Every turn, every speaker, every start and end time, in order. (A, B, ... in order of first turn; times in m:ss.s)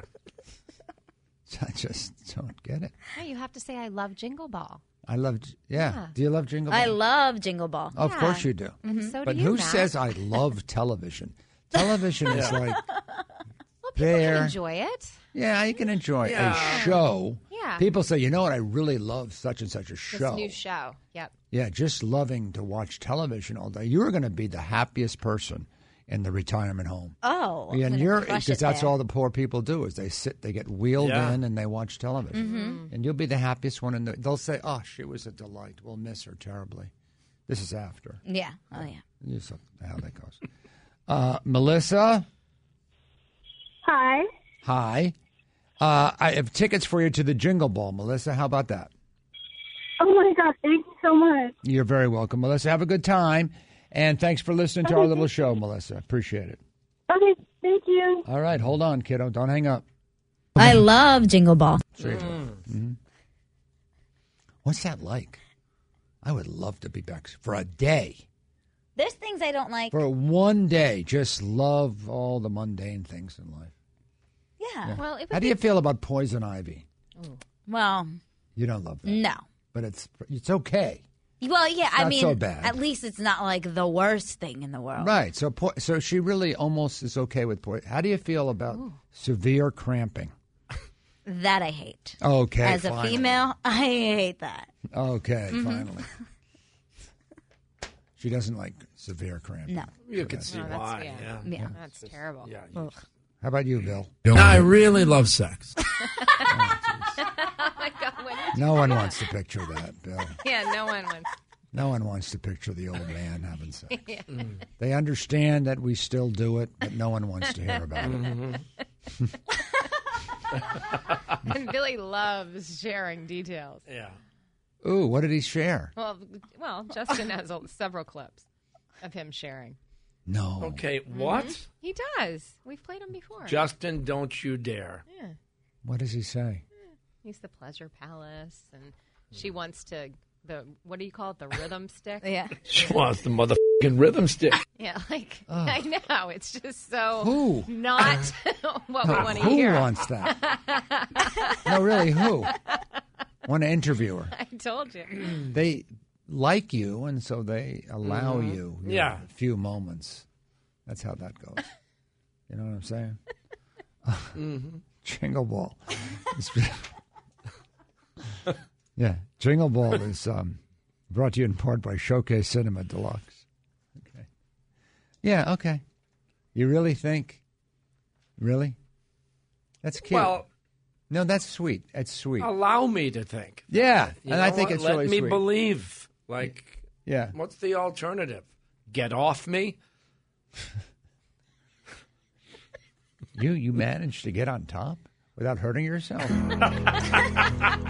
0:01.5-0:03.0 A
0:03.1-0:04.8 B
0:05.1-0:07.0 A
0:05.8-0:06.1 B
0:06.7-0:08.0 C
0:07.9-0:12.9 A
0:08.0-0:09.9 B
0:08.8-0:09.2 C
0:12.3-0:12.6 D
0:13.8-0:15.1 B
0:14.0-0:14.6 A
0:15.3-0:20.6 A
0:16.2-0:17.0 D
0:17.5-0:17.8 B
0:20.1-0:21.3 B
0:21.5-0:27.2 A
0:27.2-0:28.9 C
0:27.7-0:36.9 A
0:31.0-0:31.4 D
0:32.3-0:32.9 B
0:32.3-0:32.8 C
0:37.5-0:38.2 A
0:38.2-0:39.0 C
0:38.7-0:40.4 A
0:41.1-0:42.2 A
0:43.8-0:44.3 E
0:44.6-0:45.2 A
0:45.8-0:48.9 A
0:50.0-0:51.5 E
0:51.6-0:56.6 A
0:54.9-0:55.1 E
0:57.1-0:58.2 E
0:58.3-0:59.8 A
1:00.6-1:01.8 C
1:01.9-1:03.0 A
1:04.6-1:05.4 A
1:06.2-1:08.2 A
1:09.0-1:10.0 C
1:09.9-1:13.7 A
1:14.6-1:15.0 C
1:14.8-1:16.8 A
1:14.9-1:15.6 B
1:17.7-1:18.2 C
1:18.6-1:21.0 A
1:19.0-1:19.4 C
1:21.4-1:25.2 C
1:21.9-1:22.8 A
1:25.0-1:30.3 A
1:28.7-1:29.0 B
1:31.2-1:34.7 C
1:32.2-1:33.5 A
1:34.9-1:36.1 A
1:35.5-1:35.9 C
1:38.2-1:40.7 A
1:40.1-1:43.0 D
1:40.5-1:42.5 B
1:41.4-1:41.7 C
1:43.4-1:44.2 A
1:44.2-1:45.8 D
1:46.1-1:46.6 B
1:46.4-1:47.2 A
1:47.2-1:49.2 B
1:48.5-1:50.4 A
1:50.4-1:51.3 B
1:51.7-1:54.0 A
1:53.9-1:54.6 B
1:54.8-1:58.3 A
1:58.0-1:58.6 D
2:01.4-2:03.8 B
2:03.9-2:04.2 D
2:04.8-2:05.9 A
2:06.0-2:08.4 B
2:09.0-2:09.8 B
2:10.3-2:10.9 A
2:10.6-2:11.7 D
2:11.1-2:13.6 B
2:13.4-2:15.0 D
2:15.1-2:15.4 B
2:15.8-2:16.6 A
2:17.2-2:22.5 B
2:22.2-2:22.5 C
2:22.6-2:24.6 D
2:24.8-2:32.8 B
2:25.5-2:25.8 A
2:27.2-2:27.8 A
2:29.0-2:30.4 A
2:31.6-2:32.5 A
2:33.4-2:34.3 A
2:34.3-2:35.5 B
2:35.4-2:40.2 A
2:38.0-2:39.2 D
2:40.8-2:41.6 A
2:42.5-2:43.2 A
2:44.0-2:44.5 A
2:44.4-2:44.8 D
2:45.0-2:46.9 A
2:49.0-2:50.6 A
2:51.1-2:53.4 A
2:54.0-2:54.3 A
2:55.2-2:55.8 A
2:56.5-2:57.4 A
2:58.4-2:58.8 A
2:59.8-3:00.4 A
3:00.0-3:00.4 D
3:01.1-3:02.5 A
3:02.4-3:09.8 D
3:03.7-3:05.5 A
3:07.0-3:07.4 A
3:13.3-3:16.6 A